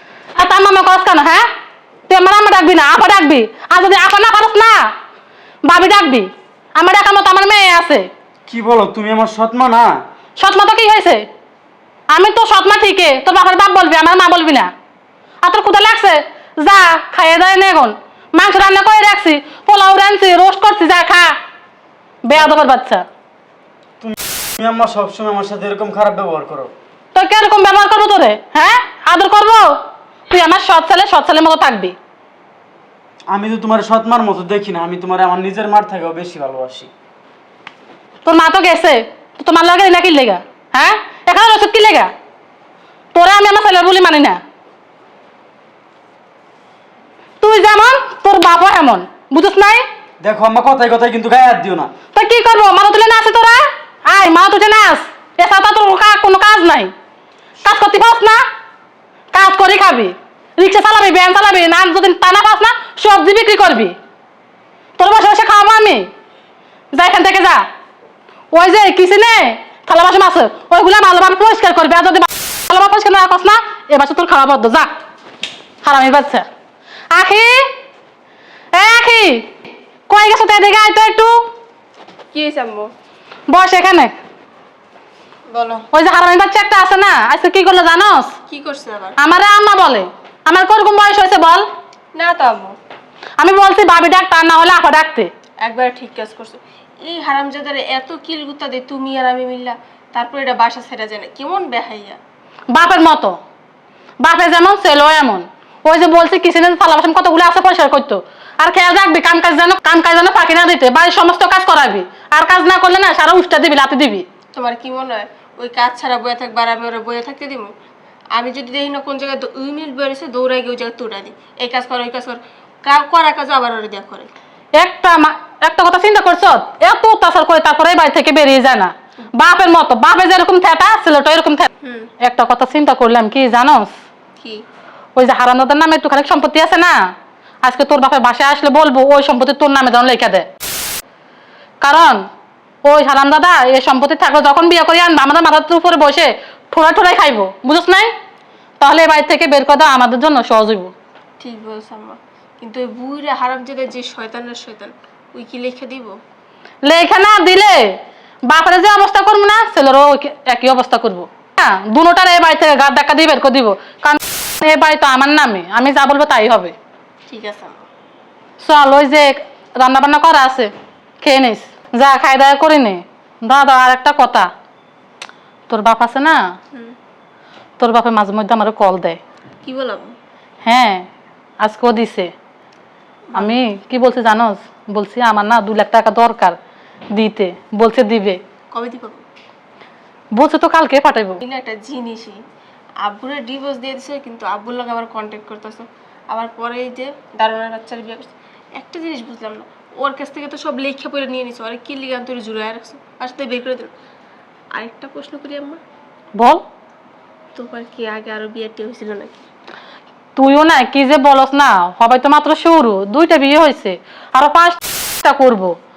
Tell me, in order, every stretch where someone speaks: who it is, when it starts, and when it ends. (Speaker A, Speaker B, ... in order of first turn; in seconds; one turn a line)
Speaker A: 0.4-1.5
Speaker A: 2.1-4.9
Speaker A: 5.7-8.1
Speaker B: 8.5-10.0
Speaker A: 10.4-11.2
Speaker A: 12.1-14.7
Speaker A: 15.4-21.3
Speaker A: 22.2-23.1
Speaker B: 24.0-26.7
Speaker A: 27.1-29.8
Speaker A: 30.3-31.9
Speaker B: 33.3-36.9
Speaker A: 38.2-42.1
Speaker A: 43.1-44.4
Speaker A: 47.4-49.9
Speaker B: 50.2-51.9
Speaker A: 52.1-56.9
Speaker A: 57.6-58.4
Speaker A: 59.3-64.0
Speaker A: 65.0-66.1
Speaker A: 66.9-67.6
Speaker A: 68.5-74.9
Speaker A: 75.8-76.5
Speaker A: 77.1-77.7
Speaker A: 78.7-79.5
Speaker A: 80.1-81.5
Speaker C: 82.3-82.9
Speaker A: 83.5-84.1
Speaker C: 85.5-85.9
Speaker A: 85.9-88.3
Speaker C: 88.5-89.2
Speaker A: 89.2-91.7
Speaker C: 92.1-92.8
Speaker A: 93.4-95.3
Speaker C: 95.6-102.2
Speaker A: 102.7-103.4
Speaker A: 104.2-114.2
Speaker C: 114.5-117.7
Speaker C: 118.3-124.3
Speaker A: 124.8-131.7
Speaker C: 131.8-132.1
Speaker A: 132.2-133.9
Speaker C: 134.4-134.6
Speaker A: 135.2-137.0
Speaker A: 137.6-140.5
Speaker A: 141.8-142.2
Speaker A: 142.8-148.1
Speaker A: 148.8-150.9
Speaker C: 151.4-156.2
Speaker A: 156.9-157.9
Speaker A: 158.5-166.7
Speaker C: 167.3-167.8
Speaker A: 168.6-170.7
Speaker A: 171.2-174.5
Speaker A: 175.7-176.4
Speaker A: 177.8-179.2
Speaker C: 179.6-180.1
Speaker A: 180.6-181.1
Speaker A: 181.6-182.3
Speaker C: 183.3-183.6
Speaker A: 183.4-186.6
Speaker A: 187.2-188.4
Speaker C: 188.7-189.2
Speaker A: 190.3-191.4
Speaker C: 191.4-192.3
Speaker C: 193.0-203.9
Speaker C: 204.7-205.8
Speaker C: 207.6-209.4
Speaker A: 210.4-215.7